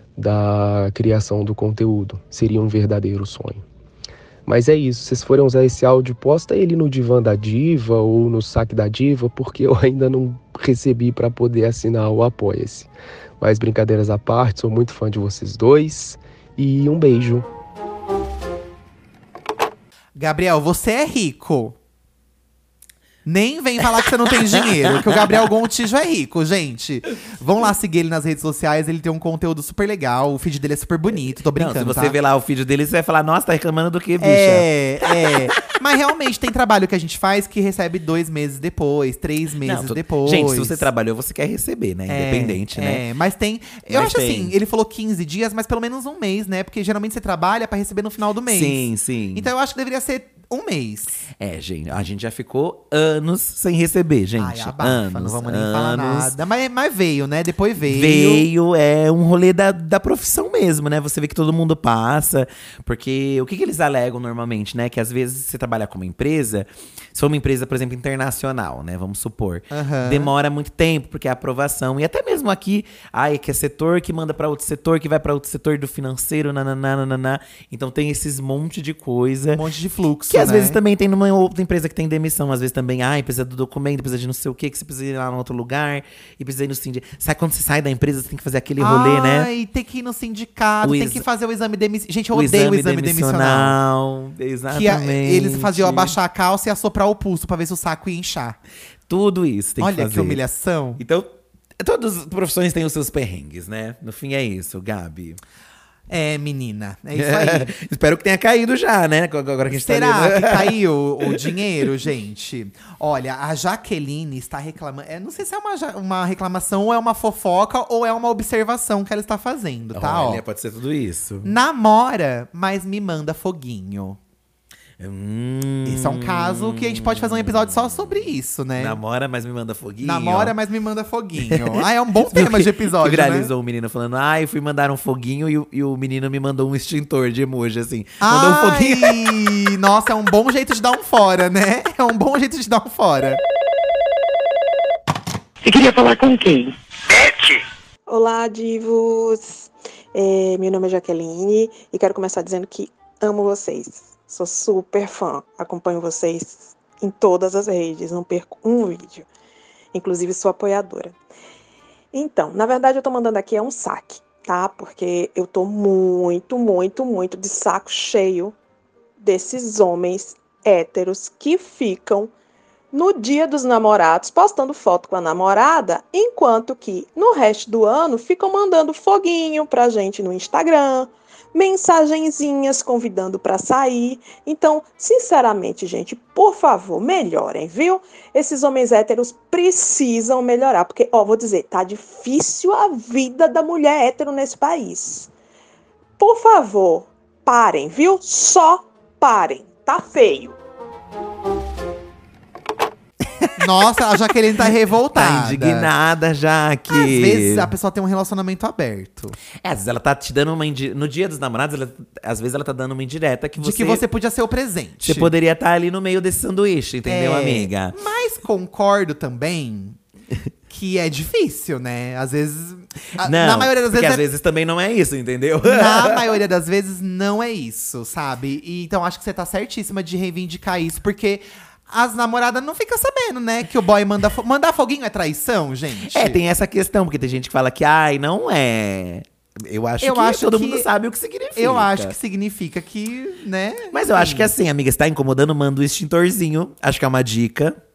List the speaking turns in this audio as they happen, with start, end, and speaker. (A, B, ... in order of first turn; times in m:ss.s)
0:00.2-0:03.6 A
0:04.5-0:12.9 A
0:13.4-0:17.4 A
0:20.2-0:21.8 B
0:23.3-0:32.2 B
0:24.3-0:25.4 C
0:31.1-0:35.3 C
0:34.2-0:40.9 B
0:39.6-0:43.0 C
0:42.1-0:51.2 B
0:43.9-0:44.6 C
0:48.5-0:49.5 C
0:51.4-0:56.4 C
0:54.4-0:58.5 B
0:57.8-1:19.6 C
1:09.7-1:10.3 B
1:19.5-1:20.8 B
1:20.3-1:29.5 C
1:28.8-1:33.8 B
1:30.8-1:31.2 C
1:32.3-1:36.2 C
1:34.7-1:38.6 B
1:39.1-1:40.4 C
1:39.8-1:41.0 B
1:41.0-1:45.4 C
1:46.1-1:47.7 B
1:47.2-1:51.8 C
1:49.7-2:00.4 B
1:59.9-2:01.5 C
2:01.4-2:04.2 B
2:05.0-2:08.2 C
2:05.8-2:09.0 B
2:08.8-2:10.6 C
2:10.0-2:13.5 B
2:11.5-2:19.3 C
2:18.2-2:23.4 B
2:25.6-2:27.6 D
2:28.1-2:39.3 E
2:39.9-2:41.2 E
2:42.1-2:48.6 E
2:49.2-2:52.3 E
2:52.9-3:15.3 E
3:16.2-3:20.6 E
3:23.6-3:25.9 B
3:25.1-3:27.7 C
3:26.9-3:29.4 B
3:29.6-3:34.0 C
3:33.6-3:35.3 B
3:35.0-3:38.0 C
3:37.1-3:40.0 B
3:40.7-3:44.2 B
3:43.2-3:46.4 C
3:45.6-3:56.4 B
3:56.1-4:02.2 C
4:00.0-4:00.9 B
4:01.6-4:04.5 B
4:03.9-4:07.8 C